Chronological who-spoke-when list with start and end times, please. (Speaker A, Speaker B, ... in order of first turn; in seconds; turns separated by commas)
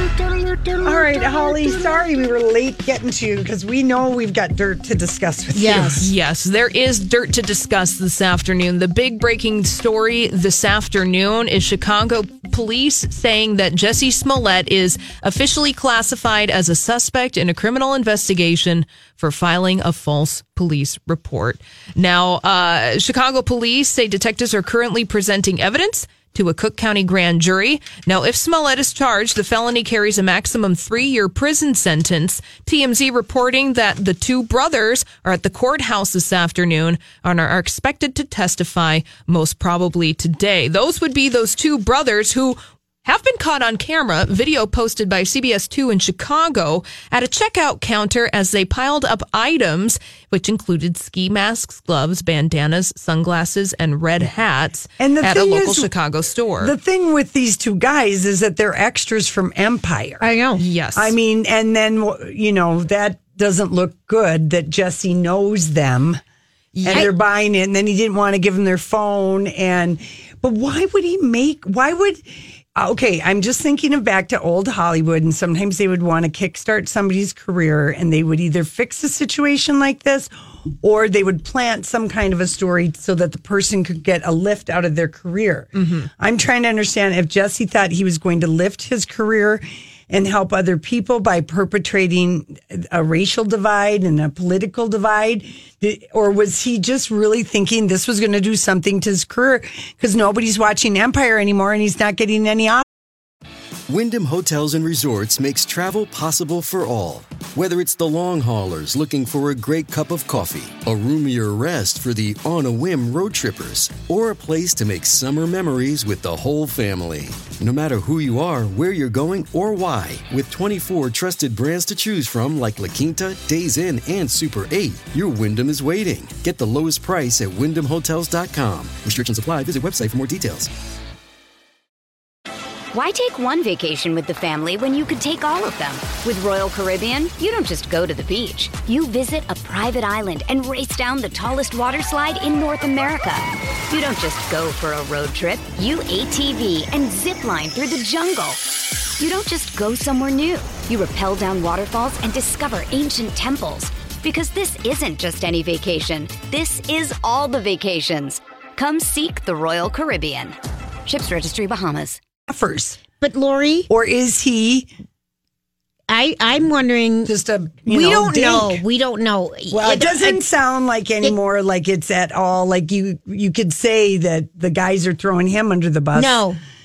Speaker A: 0.8-6.1, Speaker B: 5.5-6.0, Speaker C: 5.8-56.7, Speaker A: 55.0-55.9, Speaker A: 56.6-60.2, Speaker B: 60.2-60.6, Speaker C: 60.6-61.1, Speaker A: 61.0-66.2, Speaker C: 66.8-67.1, Speaker A: 66.8-102.8, Speaker C: 85.8-86.1, Speaker D: 103.9-130.7, Speaker E: 132.9-148.7, Speaker E: 149.2-162.2, Speaker A: 162.5-163.0, Speaker B: 163.2-163.9, Speaker A: 163.9-164.9, Speaker B: 166.1-167.3, Speaker A: 167.3-168.8, Speaker B: 167.9-170.4, Speaker A: 169.7-176.4, Speaker B: 176.2-176.6